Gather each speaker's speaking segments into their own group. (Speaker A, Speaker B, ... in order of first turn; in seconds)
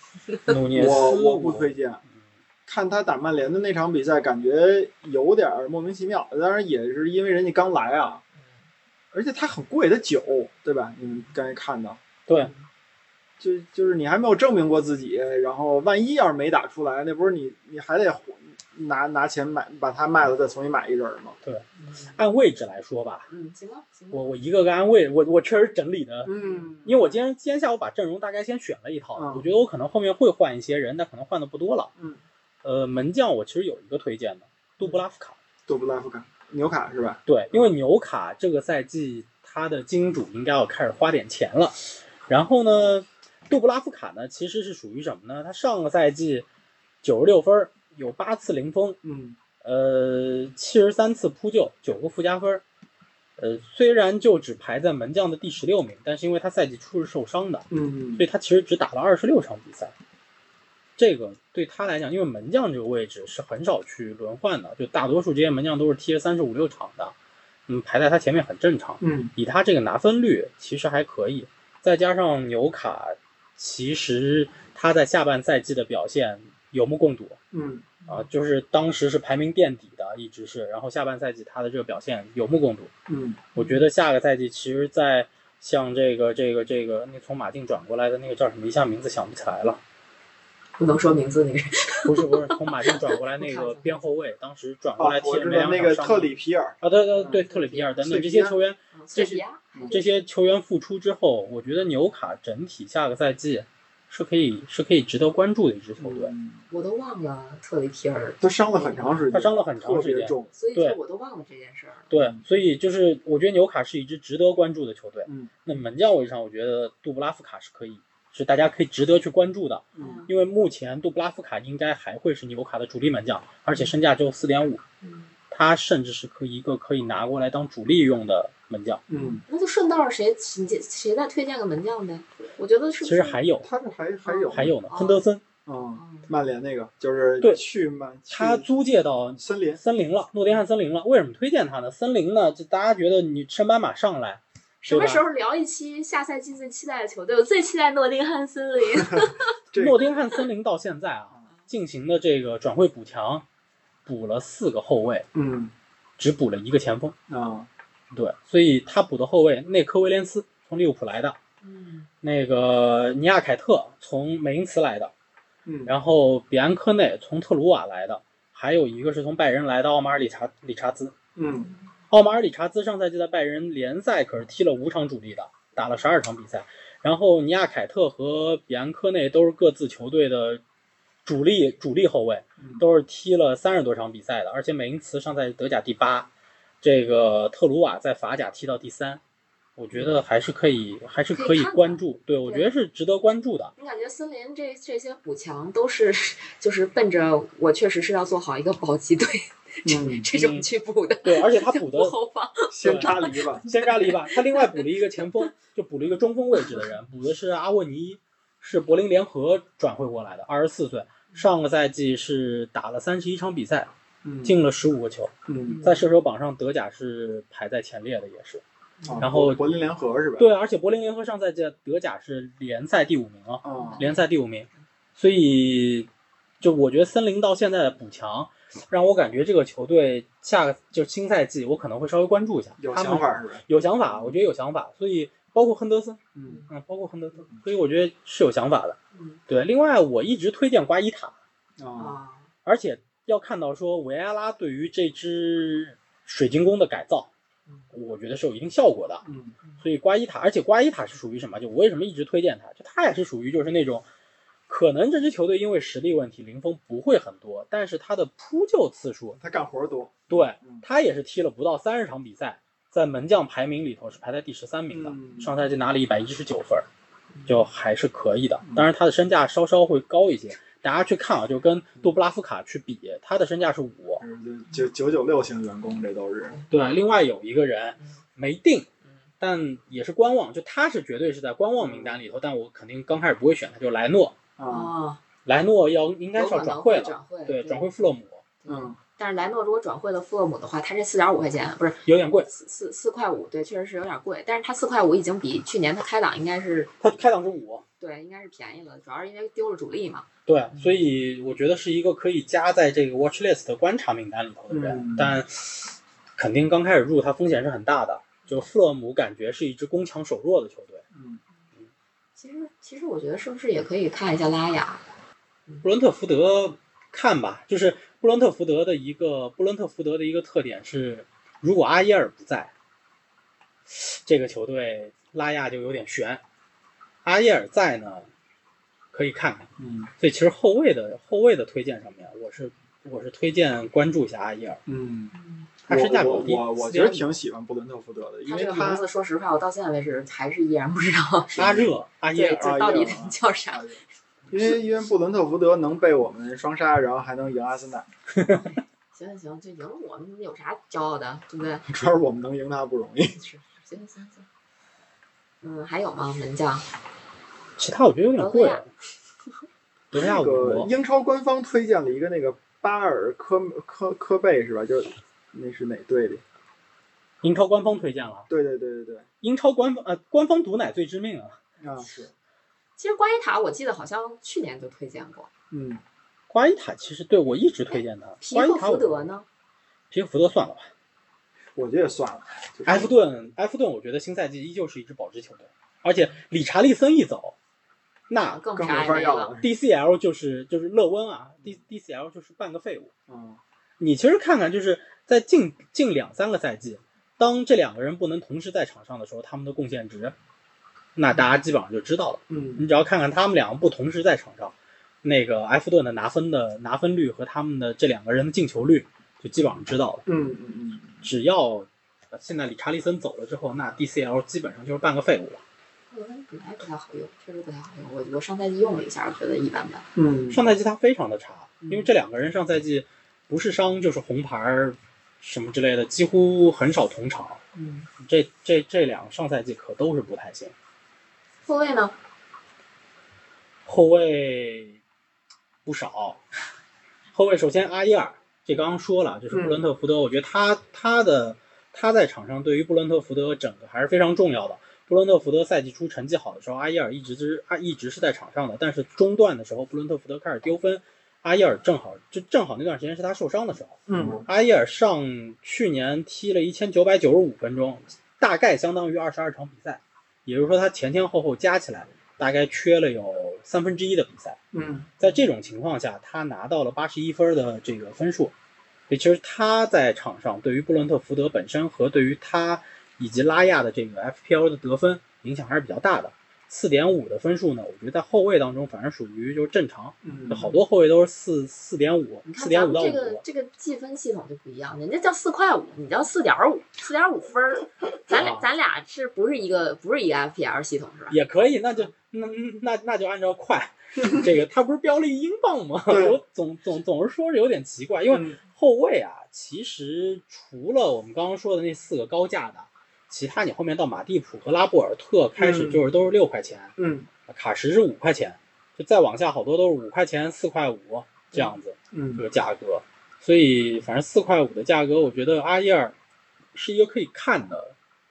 Speaker A: 0.3-0.5, 21.8-22.1, 23.3-24.2, 83.6-83.8, 90.8-94.1, 97.2-97.9, 98.9-100.2, 106.7-109.2, 110.5-112.1, 120.0-120.3, 125.0-125.3, 129.2-133.4, 134.2-135.2, 136.0-136.3, 144.8-149.5, 161.6-162.1, 191.3-192.7, 193.8-204.8, 215.7-216.0, 223.8-224.3, 242.0-242.5, 284.7-285.2, 286.3-287.8, 288.6-296.9, 298.0-300.9, 312.4-315.0, 335.4-335.7, 338.4-344.0, 348.6-351.8, 353.4-354.4, 355.6-356.9, 358.4-358.8, 373.0-375.5, 377.9-379.4, 388.3-389.5, 416.1-420.1, 421.8-422.1, 427.7-428.1, 431.6-432.1, 482.4-491.4
Speaker B: 0.5-1.7, 12.3-12.5, 21.4-23.3, 24.1-31.9, 32.6-35.4, 37.3-46.5, 47.0-49.0, 49.6-52.6, 53.4-59.9, 61.0-67.1, 67.7-77.4, 78.1-82.9, 83.5-89.8, 92.0-106.3, 109.3-111.0, 112.1-124.8, 125.5-129.0, 133.0-133.7, 134.5-135.4, 138.3-145.2, 149.7-153.4, 154.1-155.2, 156.2-157.1, 158.1-161.4, 162.2-165.1, 165.8-171.1, 172.1-180.6, 181.2-186.3, 186.8-189.2, 189.8-193.7, 200.3-200.7, 201.2-202.1, 202.8-213.9, 214.4-218.6, 219.2-219.6, 220.4-226.1, 226.6-239.0, 239.5-241.3, 242.6-247.3, 247.9-249.2, 249.8-254.0, 254.7-259.4, 260.3-266.9, 267.4-274.2, 276.7-278.9, 279.4-284.3, 285.4-288.4, 292.1-292.5, 297.0-297.8, 300.4-311.0, 315.8-322.7, 323.9-326.4, 327.2-328.3, 329.1-334.8, 335.9-337.3, 341.6-342.9, 348.4-348.6, 357.8-358.9, 360.1-360.9, 367.4-368.5, 369.4-371.6, 376.5-379.3, 380.1-380.9, 382.9-387.5, 388.3-388.6, 389.6-393.1, 394.0-400.3, 401.1-410.2, 411.2-415.6, 420.5-427.6, 428.2-430.7, 433.9-435.0, 435.8-436.4, 437.3-464.6, 465.2-468.5, 469.1-483.4, 488.3-488.6, 491.3-506.9, 507.5-516.1, 516.7-517.9
Speaker C: 0.7-2.0, 2.7-8.2, 9.1-12.0, 13.4-21.4, 26.2-27.1, 29.1-29.5, 35.7-37.7, 49.0-49.4, 57.7-58.2, 69.0-69.3, 77.5-77.9, 83.1-83.4, 95.0-97.4, 98.0-98.5, 106.0-106.6, 108.4-110.5, 112.1-112.4, 115.2-115.5, 119.9-120.2, 129.1-129.4, 133.6-134.7, 135.7-138.6, 139.4-139.8, 148.9-150.0, 155.3-155.7, 157.3-157.7, 165.7-165.9, 171.3-171.7, 199.8-200.3, 202.7-203.7, 214.2-214.6, 215.5-215.8, 219.0-220.5, 223.6-224.0, 232.8-234.3, 236.3-236.6, 241.8-242.2, 249.2-249.6, 259.4-260.8, 264.9-265.5, 274.2-276.6, 281.8-282.2, 284.6-284.9, 288.7-289.0, 304.7-305.4, 311.1-311.4, 329.8-330.1, 334.9-335.3, 335.9-339.0, 341.6-341.9, 342.6-348.1, 351.9-353.4, 360.1-366.4, 368.5-369.2, 371.8-372.3, 375.7-376.0, 381.8-383.1, 388.8-389.7, 393.3-393.6, 402.5-402.9, 410.2-411.2, 420.1-420.7, 439.5-439.8, 454.1-454.4, 464.7-465.1, 480.2-480.7, 496.1-496.4, 498.3-498.6, 505.6-506.0, 507.0-507.3, 512.1-512.4